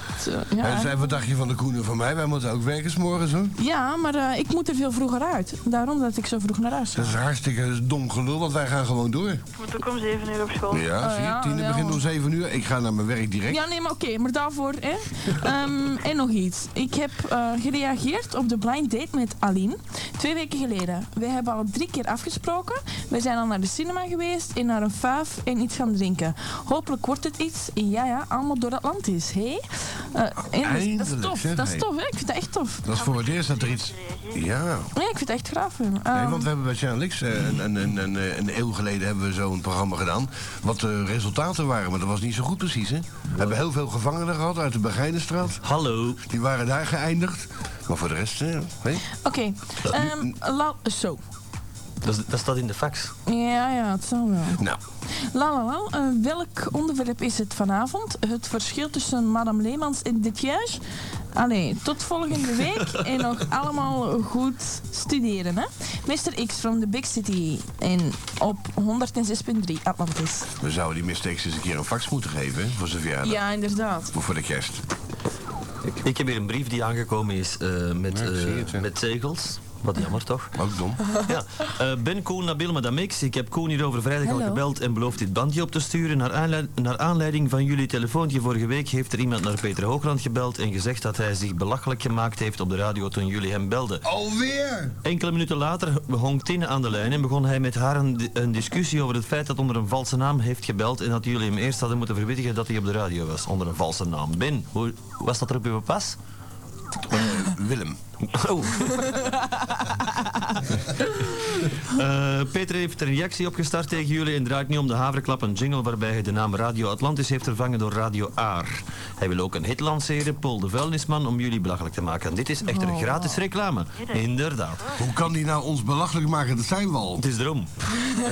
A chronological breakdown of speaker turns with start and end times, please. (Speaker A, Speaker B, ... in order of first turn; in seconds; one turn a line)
Speaker A: 0.2-1.0
Speaker B: 0.6-3.5
Speaker A: 3.6-7.2
Speaker B: 7.0-9.4
Speaker C: 9.6-10.9
Speaker B: 10.7-13.6
Speaker A: 11.0-12.0
Speaker A: 13.5-32.9
Speaker B: 30.6-31.8
Speaker B: 32.9-34.9
Speaker C: 32.9-34.4
Speaker A: 34.9-36.5
Speaker B: 36.1-45.6
Speaker D: 45.6-46.2
Speaker B: 46.2-49.0
Speaker A: 49.2-51.2
Speaker B: 49.9-50.3
Speaker D: 52.0-53.1
Speaker A: 53.2-54.6
Speaker A: 55.3-60.8
Speaker A: 61.3-70.5
Speaker B: 70.6-73.4
Speaker A: 73.2-74.1
Speaker B: 74.1-74.8
Speaker D: 75.9-94.0
Speaker B: 78.1-78.8
Speaker B: 80.5-81.1
Speaker A: 84.2-84.6
Speaker B: 94.0-94.9
Speaker D: 95.0-106.2
Speaker B: 107.1-108.0
Speaker D: 108.3-109.3
Speaker D: 111.9-124.9
Speaker A: 122.7-123.4
Speaker C: 124.0-124.3
Speaker B: 125.0-127.2
Speaker D: 127.2-128.1